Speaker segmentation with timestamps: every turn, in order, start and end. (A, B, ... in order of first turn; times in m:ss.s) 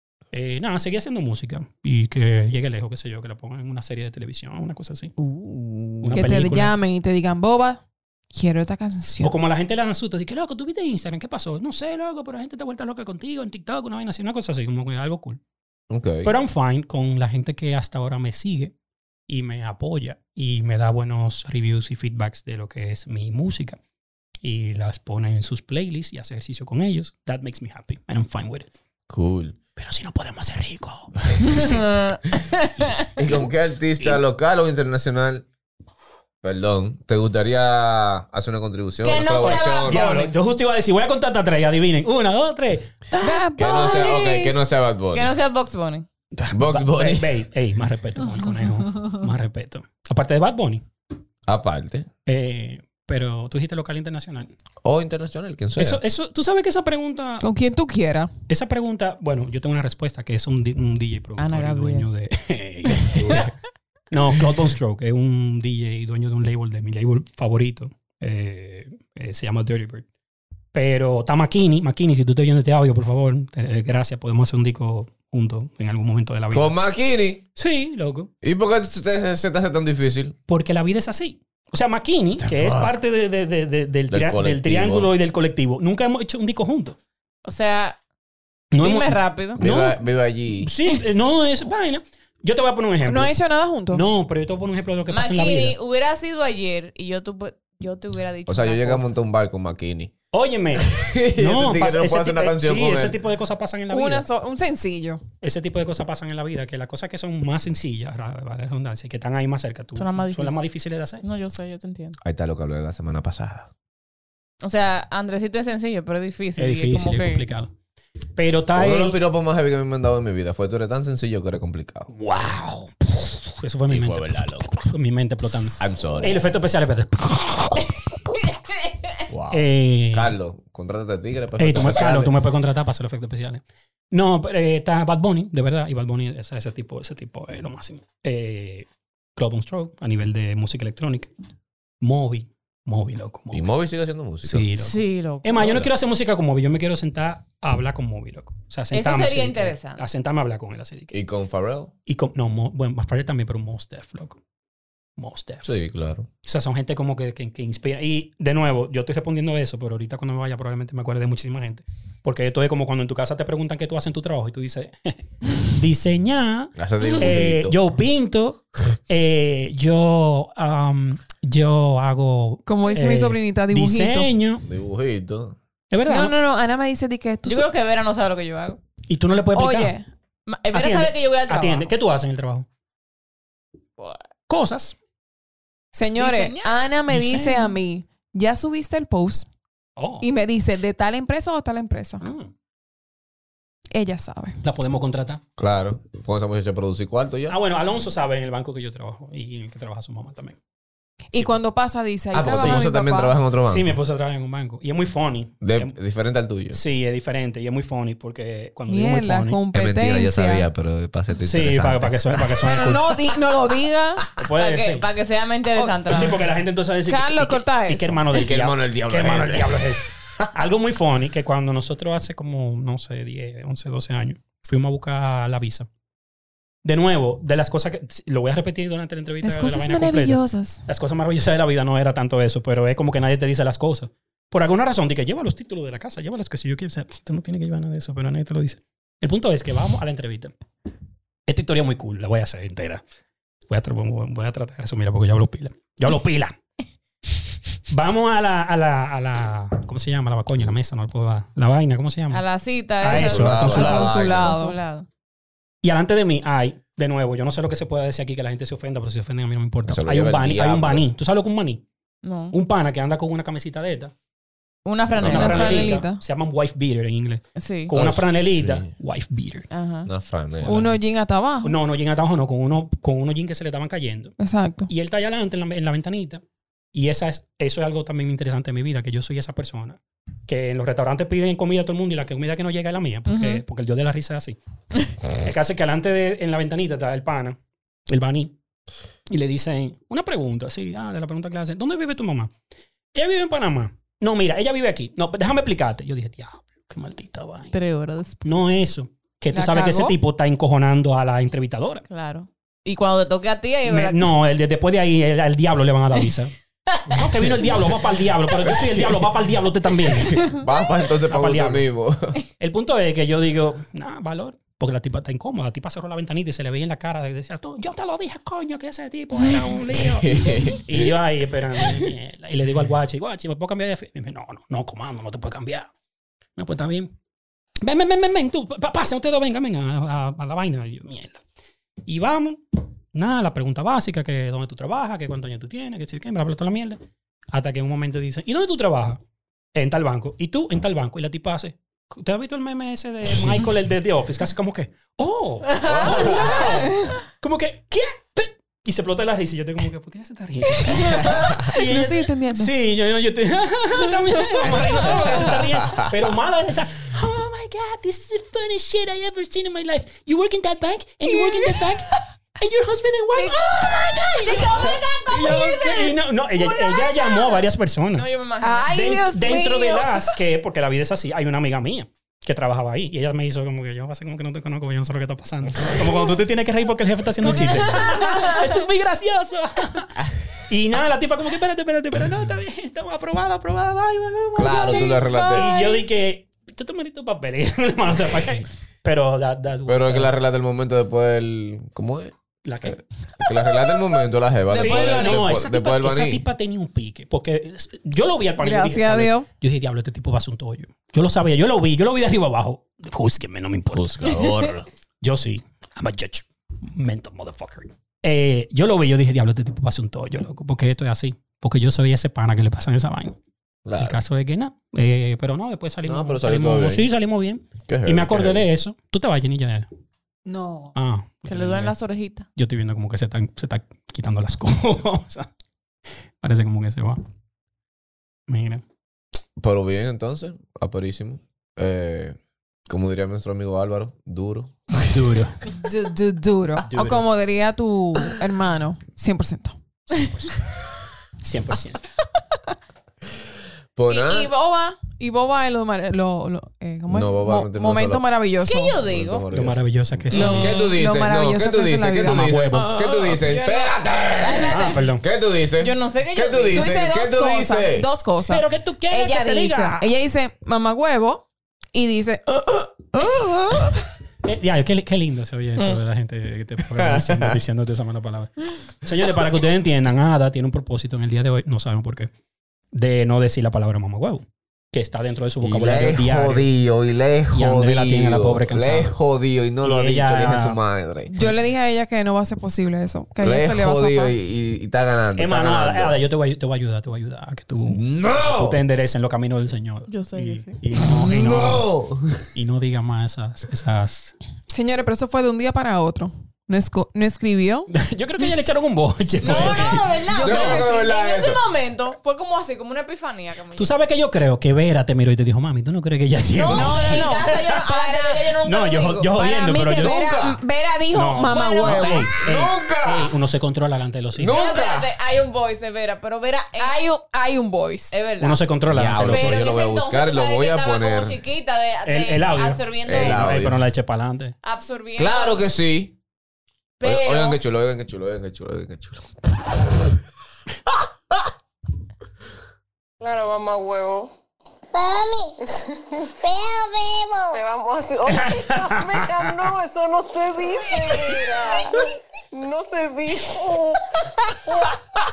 0:00.3-0:05.1 A
0:05.2-0:06.1 B
0:06.0-0:06.7 A
0:06.1-0:09.4 C
0:09.2-0:15.4 A
0:15.9-0:16.3 D
0:16.2-0:18.7 A
0:19.3-0:23.8 A
0:24.4-0:28.7 A
0:29.1-0:29.6 D
0:29.8-0:31.8 A
0:31.5-0:33.0 B
0:33.2-0:35.5 D
0:36.4-0:40.1 D
0:39.0-0:40.3 B
0:39.4-0:43.0 A
0:43.2-0:44.4 C
0:43.2-0:44.4 B
0:43.6-0:45.3 D
0:45.1-0:46.1 B
0:46.3-0:50.8 A
0:46.5-0:47.3 D
0:51.5-0:52.1 D
0:52.3-0:54.5 A
0:54.8-0:56.0 D
0:55.8-0:57.5 A
0:57.4-0:58.3 C
0:58.5-1:03.6 A
1:01.4-1:02.1 B
1:04.1-1:10.0 A
1:10.7-1:16.7 A
1:16.5-1:17.4 D
1:17.6-1:18.3 A
1:18.4-1:20.4 D
1:20.5-1:27.0 A
1:22.4-1:22.9 D
1:24.1-1:25.1 D
1:27.4-1:28.0 B
1:28.7-1:30.0 A
1:28.8-1:29.6 B
1:29.6-1:30.7 D
1:30.6-1:33.3 A
1:33.0-1:34.1 C
1:33.9-1:35.8 A
1:35.1-1:39.1 B
1:38.5-1:40.1 D
1:40.3-1:44.3 A
1:40.8-1:43.2 D
1:43.9-1:45.2 C
1:45.4-1:51.2 A
1:50.0-1:50.6 B
1:51.2-1:52.2 B
1:52.2-1:53.7 D
1:54.6-1:57.4 B
1:56.6-1:57.7 A
1:58.4-1:59.2 A
1:58.8-2:02.1 D
2:02.1-2:08.0 A
2:03.9-2:04.8 D
2:05.8-2:06.4 D
2:09.3-2:12.3 D
2:09.5-2:10.4 A
2:11.6-2:21.3 A
2:22.0-2:23.7 A
2:23.5-2:24.7 D
2:24.4-2:31.2 A
2:24.8-2:25.8 B
2:25.6-2:25.9 D
2:28.9-2:30.0 B
2:31.1-2:31.9 D
2:32.1-2:34.4 A
2:35.2-2:35.7 A
2:35.6-2:36.3 D
2:36.4-2:54.7 A
2:46.8-2:47.8 D
2:52.7-2:54.3 C
2:54.6-2:55.6 D
2:55.9-2:56.4 A
2:56.1-2:57.7 C
2:57.5-2:58.8 B
2:59.1-3:00.0 A
2:59.5-3:00.1 C
3:00.5-3:01.9 B
3:00.7-3:02.7 A
3:04.0-3:04.2 B
3:04.5-3:05.0 A
3:05.9-3:09.5 C
3:06.2-3:06.7 B
3:07.1-3:07.8 A
3:10.0-3:10.3 A
3:10.2-3:12.2 C
3:12.2-3:12.5 A
3:13.9-3:14.6 C
3:14.6-3:15.4 A
3:15.6-3:17.6 D
3:17.5-3:20.6 A
3:21.3-3:23.3 C
3:22.3-3:24.0 D
3:22.4-3:22.9 A
3:23.7-3:25.9 A
3:25.6-3:26.8 D
3:26.7-3:29.6 A
3:28.9-3:30.7 C
3:29.7-3:32.5 D
3:31.5-3:33.1 A
3:32.6-3:34.2 C
3:34.4-3:35.1 A
3:34.5-3:36.4 B
3:35.8-3:36.2 C
3:36.1-3:45.9 A
3:37.1-3:38.3 C
3:38.4-3:40.0 D
3:46.8-4:00.5 A
3:49.4-3:50.9 C
4:01.5-4:03.0 A
4:03.7-4:06.5 A
4:07.9-4:12.4 A
4:12.3-4:15.1 B
4:13.0-4:14.1 A
4:13.1-4:14.6 D
4:13.6-4:14.8 C
4:15.8-4:21.8 A
4:19.9-4:21.0 D
4:22.2-4:22.6 B
4:22.5-4:24.1 A
4:24.8-4:26.0 B
4:25.2-4:29.7 A
4:25.2-4:25.5 D
4:25.2-4:26.2 C
4:27.6-4:27.9 B
4:27.9-4:28.9 D
4:29.7-4:30.1 B
4:30.1-4:30.9 D
4:30.6-4:31.0 A
4:30.6-4:31.8 C
4:31.6-4:34.4 A
4:34.4-4:34.9 C
4:34.9-4:36.4 A
4:36.9-4:44.6 A
4:43.3-4:43.6 B
4:45.4-4:47.6 A
4:48.1-4:48.6 A
4:49.3-4:52.5 A
4:53.1-4:57.8 A
4:57.7-4:58.5 B
4:58.4-5:02.0 A
4:59.5-5:00.2 C
5:02.1-5:04.3 B
5:03.9-5:06.5 A
5:07.1-5:10.6 A
5:07.4-5:07.9 D
5:10.2-5:12.4 D
5:11.3-5:11.9 A
5:12.6-5:25.9 A
5:20.1-5:21.1 D
5:26.6-5:27.1 A
5:27.8-5:31.4 A
5:32.1-5:32.6 A
5:33.1-5:37.0 A
5:37.5-5:39.2 A
5:39.7-6:08.3 A
5:45.8-5:46.6 D
5:46.0-5:46.6 B
5:46.9-5:47.2 C
5:51.3-5:52.7 C
6:03.4-6:07.6 B
6:08.1-6:08.9 B
6:08.6-6:10.4 C
6:08.9-6:30.3 A
6:17.7-6:18.7 B
6:24.6-6:25.7 D
6:24.8-6:25.9 B
6:29.9-6:36.4 D
6:32.6-6:33.0 A
6:34.7-6:44.4 A
6:34.7-6:35.4 C
6:38.6-6:39.5 C
6:43.9-6:44.9 D
6:45.2-6:53.4 A
6:53.8-6:54.2 D
6:54.0-6:59.9 A
6:56.0-6:57.1 D
6:57.9-6:58.6 D
7:00.4-7:00.9 C
7:01.0-7:02.0 A
7:01.5-7:02.5 B
7:02.6-7:05.5 A
7:06.4-7:07.2 A
7:08.5-7:08.8 A
7:09.6-7:12.4 D
7:12.9-7:15.0 D
7:15.0-7:15.6 A
7:15.7-7:19.8 C
7:16.9-7:17.2 A
7:20.1-7:20.6 A
7:21.4-7:22.0 A
7:24.0-7:24.5 D
7:24.1-7:29.0 C
7:27.1-7:28.2 D
7:28.6-7:29.4 B
7:29.0-7:38.1 D
7:29.5-7:30.8 A
7:30.3-7:33.1 C
7:30.4-7:30.7 B
7:32.2-7:32.9 A
7:33.2-7:35.1 B
7:34.7-7:35.2 A
7:35.8-7:37.0 B
7:36.7-7:42.5 C
7:38.4-7:40.1 A
7:43.2-7:43.9 D
7:44.4-7:52.3 A
7:47.0-7:47.5 D
7:52.9-7:56.7 A
7:55.6-8:01.3 D
7:57.5-7:59.1 A
7:59.8-8:00.8 A
8:01.3-8:04.3 C
8:03.4-8:06.2 D
8:05.4-8:11.9 A
8:07.9-8:08.8 D
8:10.1-8:10.8 B
8:11.1-8:12.5 D
8:12.5-8:14.4 A
8:14.7-8:17.9 C
8:17.9-8:20.1 A
8:19.4-8:23.9 B
8:19.5-8:20.9 C
8:20.3-8:21.6 D
8:23.8-8:27.8 A
8:26.6-8:26.9 D
8:26.7-8:32.3 B
8:26.7-8:28.6 C
8:28.6-8:30.3 A
8:29.2-8:32.3 C
8:30.0-8:30.6 D
8:31.1-8:34.6 A
8:32.3-8:33.3 D
8:34.4-8:35.1 D
8:34.5-8:36.9 B
8:36.8-8:38.1 C
8:38.1-8:38.6 B
8:38.4-8:39.6 A
8:38.9-8:41.4 D
8:39.2-8:43.5 B
8:42.0-8:44.6 A
8:43.1-8:43.8 D
8:44.6-8:45.6 B
8:45.2-8:46.2 D
8:47.0-8:47.6 B
8:47.0-8:49.3 D
8:53.2-8:54.3 E
8:54.9-9:05.0 E
8:58.3-8:59.7 A